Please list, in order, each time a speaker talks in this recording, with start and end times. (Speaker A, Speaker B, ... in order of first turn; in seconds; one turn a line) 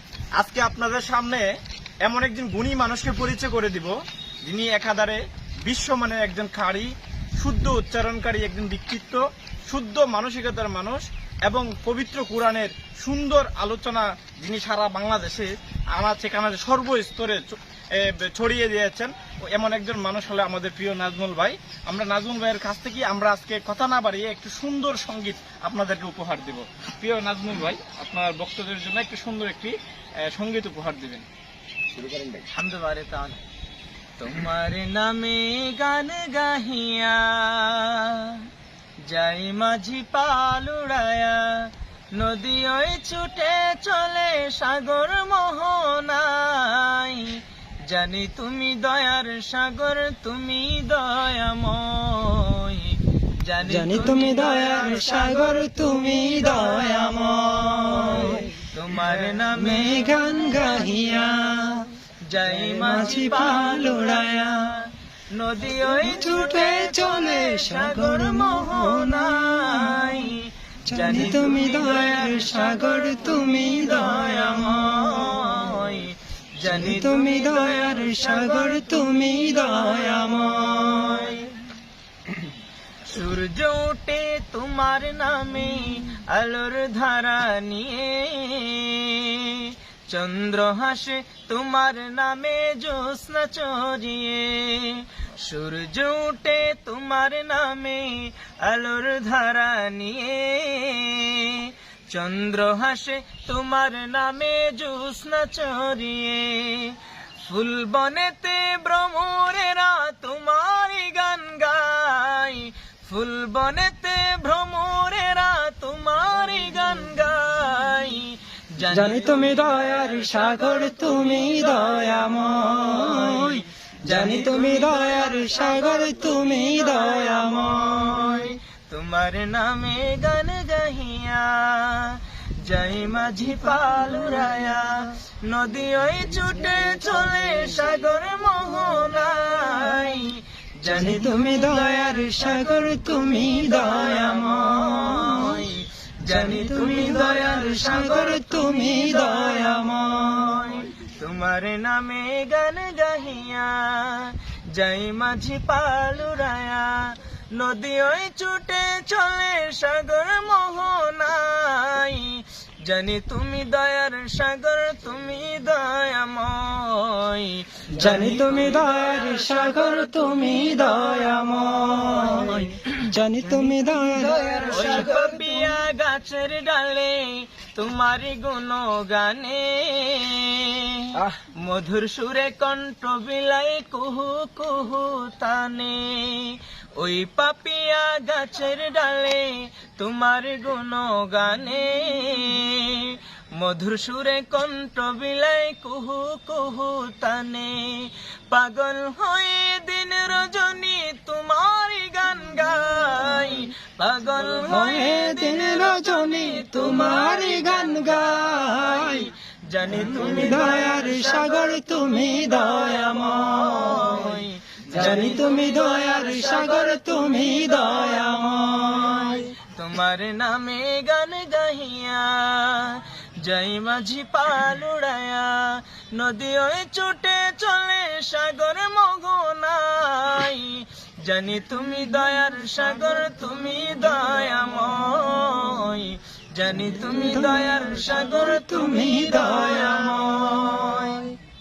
Speaker A: 0.4-1.5
Speaker A: 2.0-31.3
Speaker B: 32.5-33.4
Speaker B: 34.2-38.5
Speaker B: 39.0-55.4
Speaker C: 53.6-58.5
Speaker B: 58.3-60.8
Speaker C: 59.5-61.9
Speaker B: 62.2-81.5
Speaker C: 62.7-64.7
Speaker C: 66.0-70.1
Speaker C: 70.9-75.1
Speaker C: 76.7-81.2
Speaker B: 83.0-120.5
Speaker C: 118.9-128.2
Speaker B: 122.5-126.1
Speaker B: 126.6-142.6
Speaker C: 140.9-145.3
Speaker B: 143.3-169.3
Speaker C: 146.3-150.7
Speaker C: 168.0-175.2
Speaker B: 172.5-172.8
Speaker B: 174.7-211.7
Speaker C: 204.6-209.3
Speaker C: 210.0-214.1
Speaker B: 212.8-216.5
Speaker C: 214.9-219.5
Speaker B: 219.3-241.4
Speaker C: 237.1-237.7
Speaker C: 238.5-240.2